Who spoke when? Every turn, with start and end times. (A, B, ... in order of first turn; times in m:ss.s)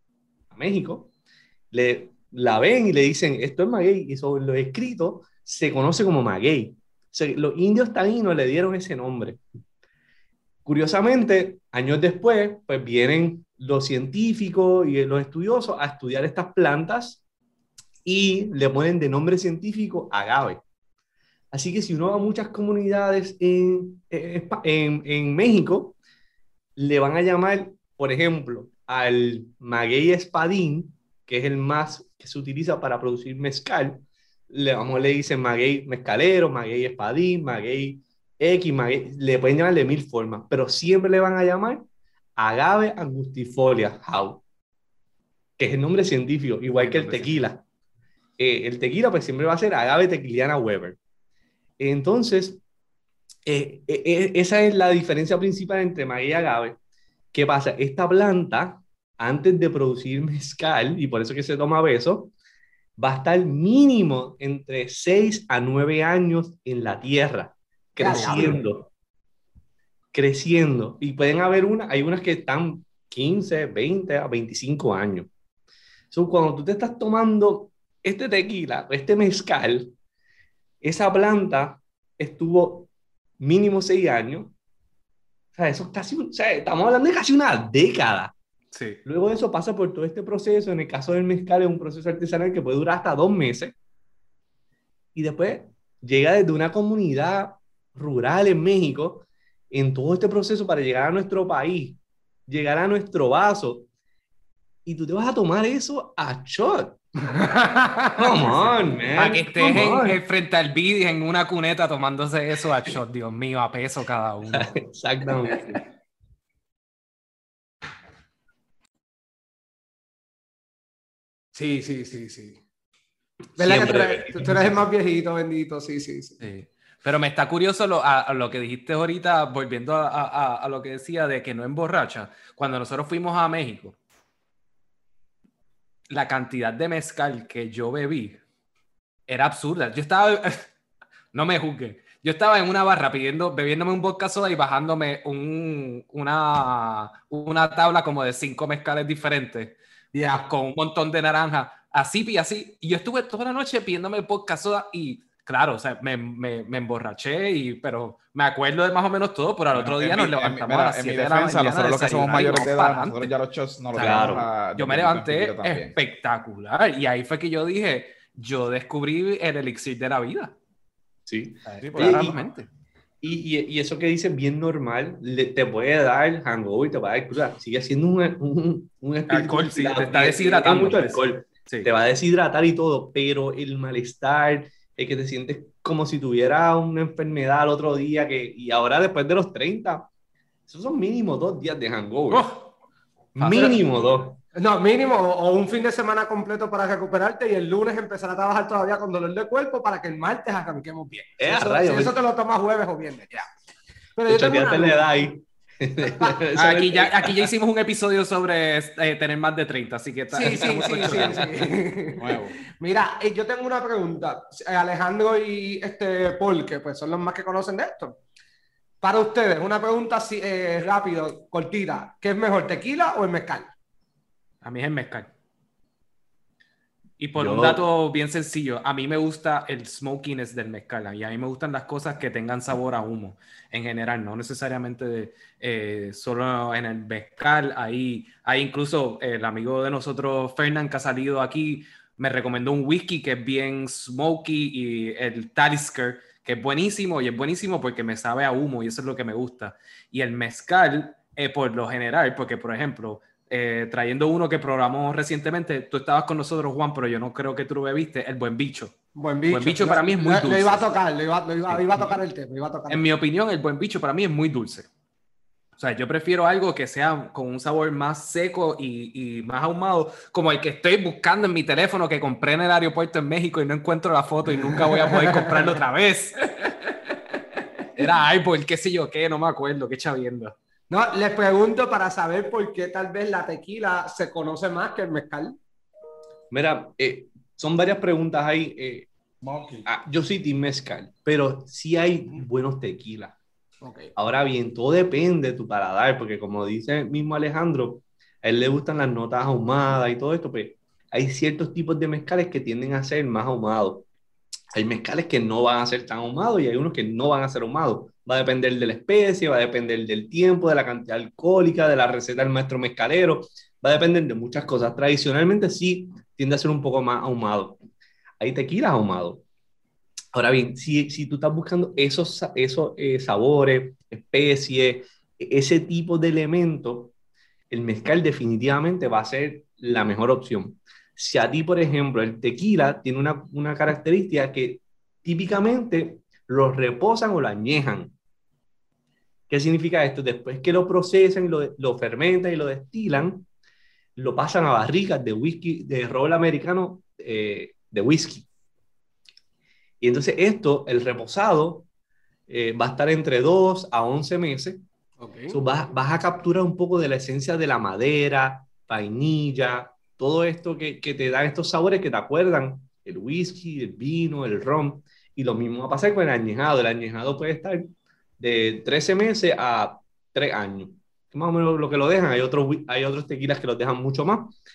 0:00.5-0:01.1 A
0:01.7-0:09.4 A
0:10.6-0:17.2 A
0:18.0-0:20.6 A
0:21.5-0:26.0 A
0:26.8-0:41.8 A
0:42.4-0:44.4 A
0:45.6-0:47.6 A
0:46.8-0:47.3 B
0:48.4-0:51.0 A
0:51.8-0:52.6 A
0:53.4-0:56.8 A
0:57.3-1:02.3 A
1:03.0-1:08.9 A
1:08.0-1:08.6 C
1:08.1-1:08.6 D
1:10.1-1:15.3 A
1:16.1-1:19.9 A
1:20.8-1:24.5 A
1:25.5-1:28.3 A
1:28.7-1:29.0 B
1:29.0-1:33.7 A
1:35.1-1:43.9 A
1:44.8-1:47.0 A
1:47.3-1:48.5 C
1:48.2-1:50.2 A
1:49.1-1:54.7 B
1:54.5-1:55.8 A
2:01.5-2:02.6 C
2:03.6-2:04.8 A
2:03.6-2:06.4 C
2:06.4-2:14.0 B
2:16.1-2:18.4 B
2:19.3-2:20.7 B
2:21.3-2:29.8 B
2:30.1-2:30.5 C
2:30.4-2:43.3 B
2:39.7-2:45.9 D
2:43.9-2:50.5 B
2:44.0-2:44.5 A
2:51.3-2:52.4 A
2:51.6-2:52.7 B
2:51.8-2:52.4 D
2:53.2-3:10.1 A
2:59.3-3:01.9 B
3:10.7-3:12.5 A
3:12.3-3:12.6 B
3:13.3-3:14.4 A
3:13.4-3:13.8 B
3:13.5-3:13.8 C
3:14.5-3:23.5 C
3:21.4-3:22.2 A
3:24.2-3:25.1 C
3:24.3-3:27.5 A
3:26.0-3:26.4 C
3:26.5-3:31.5 B
3:30.3-3:38.2 C
3:31.0-3:31.4 D
3:32.2-3:32.6 D
3:39.0-3:43.7 C
3:44.6-3:45.3 B
3:47.2-4:18.9 B
3:47.4-3:47.8 A
4:19.2-4:23.0 C
4:19.5-4:20.9 B
4:21.7-4:22.2 B
4:22.9-4:24.9 B
4:25.8-4:37.2 B
4:35.0-4:35.6 C
4:37.9-4:40.5 B
4:40.9-4:45.6 C
4:46.5-4:49.1 A
4:49.4-4:49.8 D
4:49.8-4:53.4 A
4:53.8-4:54.1 C
4:54.2-5:04.0 A
5:04.7-5:17.8 A
5:18.4-5:19.4 A
5:20.3-5:27.1 A
5:27.7-5:38.1 A
5:39.5-5:43.5 A
5:44.2-5:48.5 A
5:50.0-5:51.9 A
5:52.5-5:54.8 A
5:55.2-5:55.6 C
5:55.5-6:14.5 A